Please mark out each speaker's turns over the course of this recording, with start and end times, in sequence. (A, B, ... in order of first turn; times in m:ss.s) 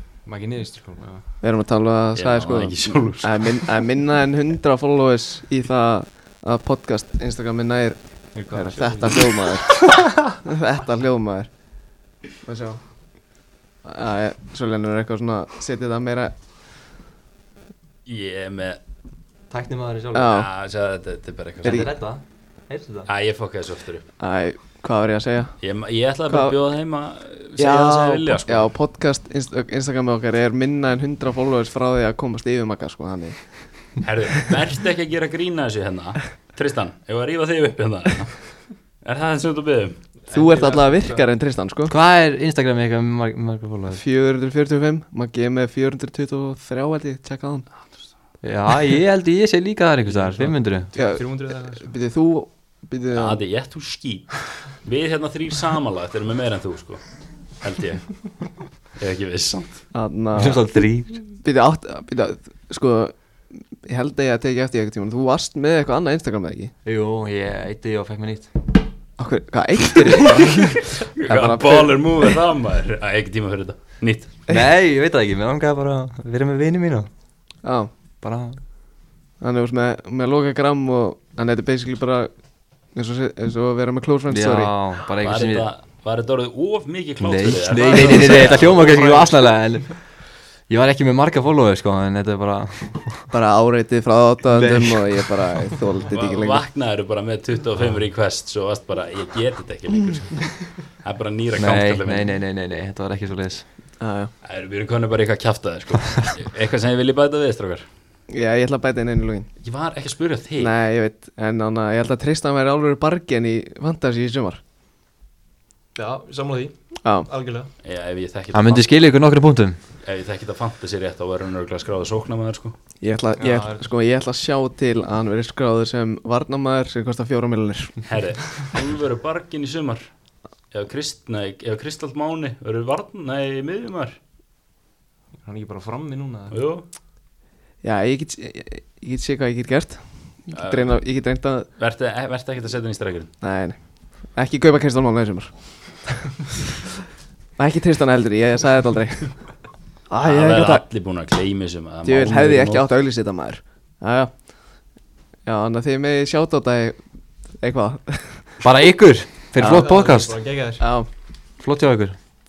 0:00.2-0:01.3 A
0:01.4-0:11.5 B
0:02.1-0:03.7 C
0:08.3-0:09.4 A
0:12.4-0:12.9 B
0:13.8-0:16.3 B
0:18.0-0:18.8 C
0:19.5-0:20.3 D
0:20.1-0:20.5 B
0:20.3-0:21.9 C
0:21.6-0:21.9 B
0:21.6-0:23.1 D
0:23.0-0:24.1 C
0:24.2-0:25.6 B
0:25.6-0:28.7 C
0:26.3-0:26.6 B
0:27.6-0:33.7 B
0:34.0-0:40.1 C
0:40.2-0:41.3 A
0:40.3-0:41.9 B
0:41.9-0:44.0 D
0:43.9-0:47.7 B
0:48.4-0:50.9 D
0:50.0-0:51.9 A
0:51.0-0:53.4 B
0:53.1-0:58.2 C
0:58.9-0:59.8 C
0:59.9-1:00.7 B
1:00.4-1:01.2 D
1:01.3-1:06.7 B
1:06.8-1:08.5 D
1:09.2-1:12.4 B
1:11.0-1:14.4 C
1:14.5-1:17.1 D
1:17.6-1:17.9 B
1:18.2-1:18.6 D
1:19.4-1:22.3 B
1:22.9-1:24.7 B
1:24.3-1:25.7 D
1:25.2-1:28.9 C
1:27.2-1:33.3 D
1:27.8-1:29.6 A
1:33.3-1:36.6 B
1:34.5-1:35.3 D
1:36.1-1:42.4 C
1:41.6-1:43.7 D
1:44.0-1:44.3 B
1:44.4-1:47.9 C
1:48.3-1:49.5 B
1:49.6-1:50.7 C
1:50.6-1:54.6 B
1:55.9-1:57.7 A
1:57.0-1:57.3 B
1:57.8-1:58.9 C
1:58.5-1:59.8 D
2:00.0-2:02.8 C
2:03.0-2:08.0 B
2:03.4-2:03.9 A
2:08.0-2:10.1 C
2:10.7-2:14.2 C
2:15.4-2:16.6 A
2:16.5-2:16.8 C
2:17.8-2:21.7 B
2:20.5-2:21.0 C
2:21.8-2:23.3 C
2:23.4-2:26.2 B
2:27.6-2:29.6 B
2:30.1-2:30.8 B
2:30.2-2:32.8 C
2:32.0-2:34.5 B
2:35.4-2:38.6 B
2:38.6-2:40.4 D
2:39.6-2:40.8 A
2:40.8-2:41.1 B
2:41.6-2:42.2 D